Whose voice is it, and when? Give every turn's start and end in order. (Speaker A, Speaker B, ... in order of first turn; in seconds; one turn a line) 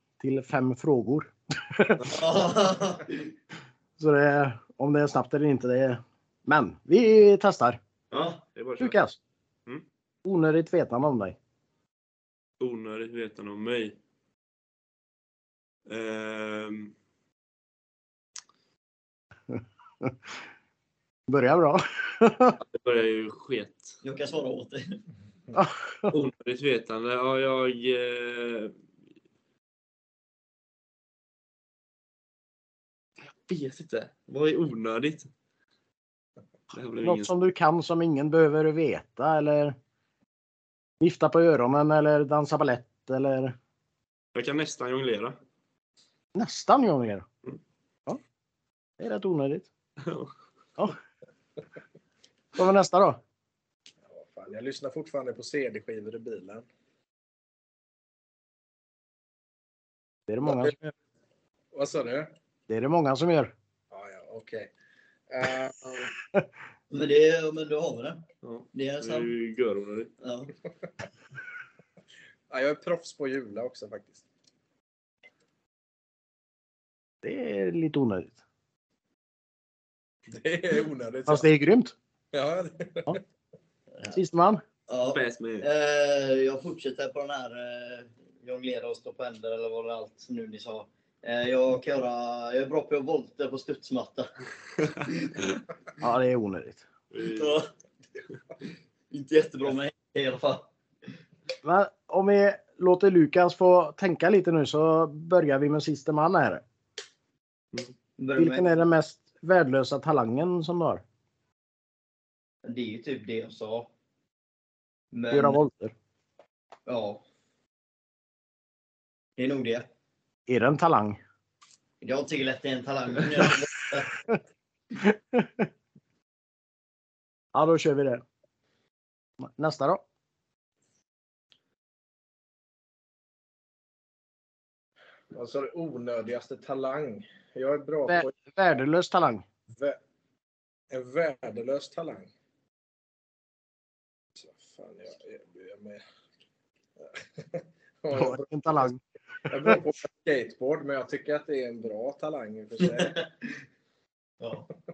Speaker A: 0.2-2.1
Speaker B: 2.0-3.3
Speaker A: 4.0-7.8
Speaker B: 8.1-8.4
Speaker C: 8.1-9.0
Speaker A: 8.8-9.2
Speaker A: 10.2-11.3
Speaker C: 12.6-13.9
Speaker C: 15.9-16.9
Speaker A: 19.5-20.2
Speaker A: 21.3-22.6
Speaker C: 22.6-24.0
Speaker B: 24.0-25.0
Speaker A: 25.5-26.1
Speaker C: 26.1-28.7
Speaker C: 33.5-35.3
Speaker C: 36.7-37.3
Speaker A: 37.0-39.8
Speaker A: 41.0-43.5
Speaker C: 44.3-45.4
Speaker A: 46.3-47.2
Speaker A: 49.0-49.7
Speaker C: 50.0-50.3
Speaker A: 52.5-53.2
Speaker D: 54.0-56.6
Speaker A: 60.3-60.9
Speaker D: 60.4-60.7
Speaker D: 61.7-62.3
Speaker A: 62.7-63.5
Speaker D: 63.9-64.7
Speaker D: 65.3-66.1
Speaker B: 66.9-69.3
Speaker C: 68.4-70.1
Speaker B: 70.2-70.5
Speaker D: 72.5-74.2
Speaker A: 77.2-78.4
Speaker D: 80.3-81.4
Speaker A: 81.3-81.9
Speaker D: 82.3-83.2
Speaker A: 84.1-84.6
Speaker B: 84.9-94.3
Speaker C: 85.1-85.7
Speaker A: 96.0-96.8
Speaker C: 97.1-97.6
Speaker B: 97.3-97.7
Speaker B: 99.1-100.7
Speaker A: 101.6-106.6
Speaker B: 108.2-108.7
Speaker A: 108.3-111.0
Speaker B: 112.6-113.9
Speaker B: 115.1-115.6
Speaker A: 115.3-115.9
Speaker B: 116.9-117.2
Speaker B: 119.4-119.9
Speaker A: 120.5-121.2
Speaker B: 122.0-124.1
Speaker A: 125.0-125.7
Speaker A: 127.5-128.2
Speaker A: 129.4-130.0
Speaker D: 135.3-138.3
Speaker A: 138.1-139.4
Speaker D: 139.7-140.0
Speaker D: 140.9-142.3
Speaker D: 144.4-146.0
Speaker D: 147.0-148.9
Speaker A: 148.1-149.0
Speaker D: 149.5-153.2
Speaker B: 153.0-153.3
Speaker B: 154.4-154.7